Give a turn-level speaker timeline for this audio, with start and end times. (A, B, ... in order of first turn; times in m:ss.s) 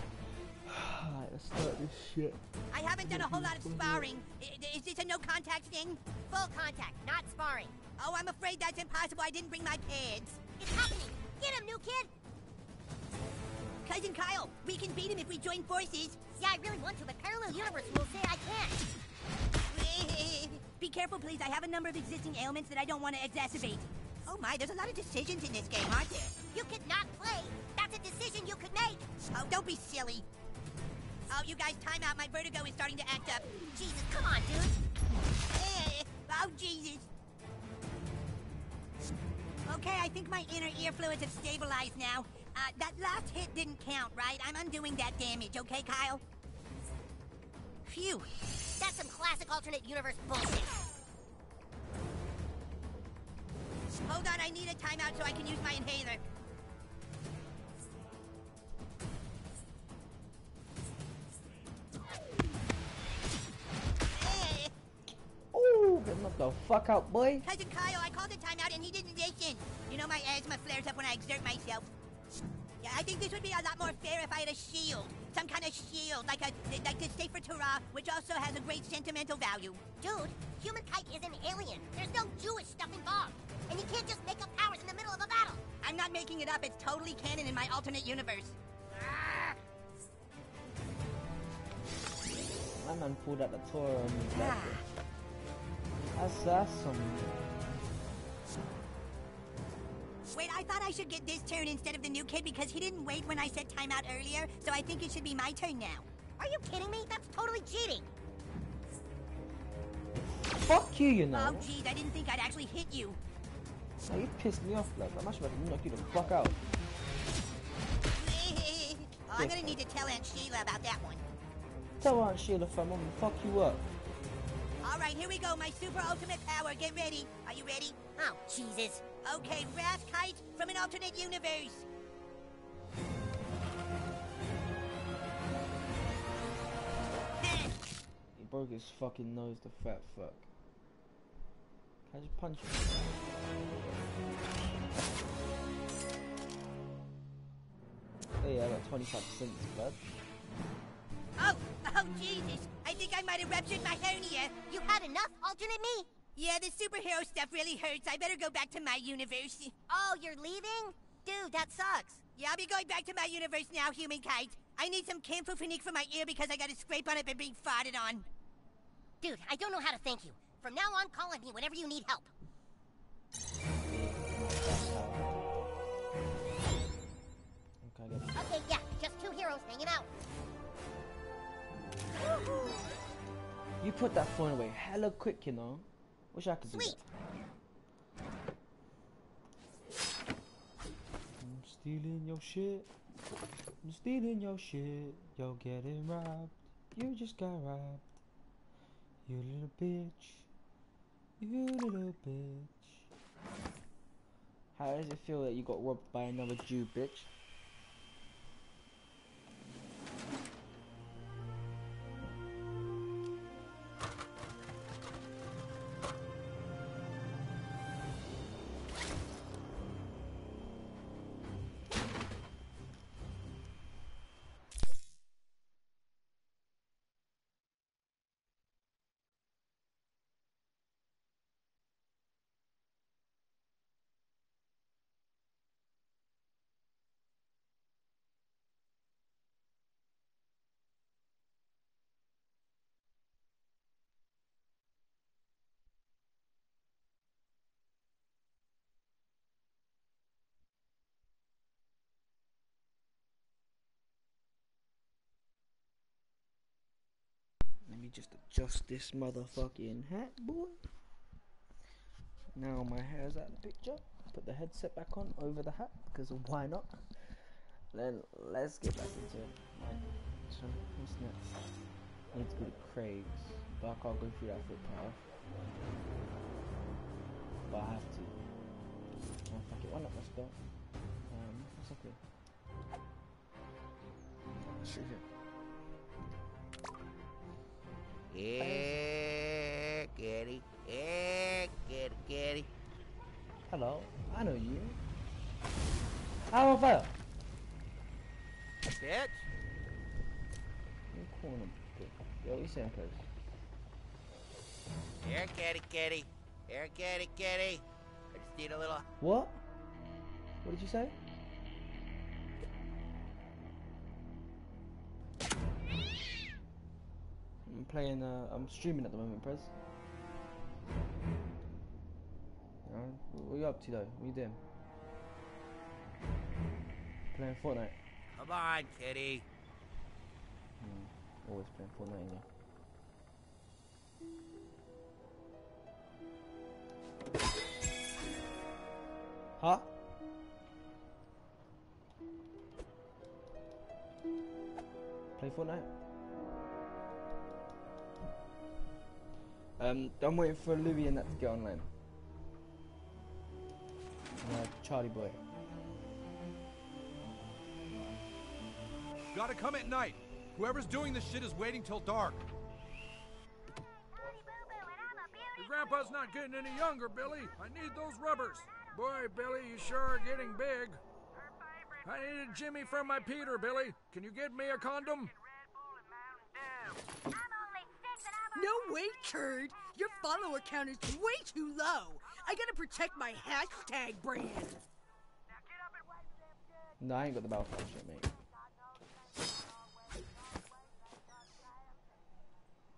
0:00.6-0:02.4 A
0:02.7-0:06.0 B
0:03.0-0:04.1 A
0:06.2-0:07.8 C
0:08.0-0:10.4 B
0:10.6-0:12.1 C
0:13.8-0:16.2 B
0:16.4-0:18.8 C
0:19.7-0:26.3 B
0:26.5-0:29.1 C
0:29.3-0:30.2 B
0:31.3-0:33.4 B
0:33.7-0:34.8 C
0:35.5-0:37.0 B
0:39.6-0:46.2 B
0:47.8-0:48.3 B
0:48.8-0:50.8 C
0:54.0-0:56.2 B
1:04.1-1:04.7 B
1:05.5-1:07.4 A
1:07.4-1:11.9 B
1:12.8-1:19.8 B
1:20.0-1:25.6 C
1:25.8-1:29.5 B
1:32.7-1:34.8 A
1:34.3-1:34.8 B
1:36.1-1:37.5 A
1:40.3-1:46.1 B
1:46.4-1:48.1 C
1:50.6-1:51.7 A
1:51.3-1:53.2 B
1:54.0-1:56.6 A
1:58.2-2:01.2 B
1:59.4-1:59.8 A
2:02.0-2:03.9 A
2:04.8-2:08.0 B
2:08.2-2:09.1 C
2:09.2-2:11.8 B
2:17.4-2:17.7 B
2:18.4-2:20.5 A
2:22.1-2:23.0 A
2:28.4-2:30.0 A
2:31.4-2:34.6 B
2:34.7-2:36.1 C
2:36.4-2:39.7 B
2:39.9-2:42.2 C
2:42.3-2:48.2 B
2:49.2-2:52.3 C
2:53.8-2:55.4 A
2:57.8-2:58.5 A
2:58.3-3:00.1 C
3:03.8-3:07.0 A
3:06.7-3:07.0 C
3:11.4-3:12.9 A
3:13.8-3:18.2 A
3:19.2-3:20.5 A
3:21.4-3:23.0 A
3:24.7-3:27.3 A
4:17.8-4:20.8 A
4:22.5-4:27.1 A
4:27.9-4:31.5 A
4:32.3-4:35.2 A
4:37.7-4:38.4 A
4:39.5-4:40.6 A
4:41.3-4:42.2 A
4:44.8-4:45.2 A
4:48.3-4:52.7 D
4:48.6-4:49.0 A
4:53.7-4:55.0 A
4:56.5-4:57.1 A
4:58.9-4:59.4 D
5:01.1-5:03.2 A
5:05.2-5:09.0 D
5:09.2-5:09.6 A
5:10.6-5:11.1 A
5:17.6-5:19.7 A
5:22.8-5:24.6 A
5:27.3-5:28.0 A
5:28.4-5:29.4 D
5:30.8-5:32.4 A
5:39.6-5:39.9 A
5:45.4-5:45.9 A
5:49.8-5:51.9 A
5:54.4-5:55.4 A
5:59.3-6:02.4 E
6:04.2-6:06.0 C
6:05.6-6:11.0 F
6:12.0-6:15.3 F
6:18.5-6:24.8 G
6:27.0-6:28.3 A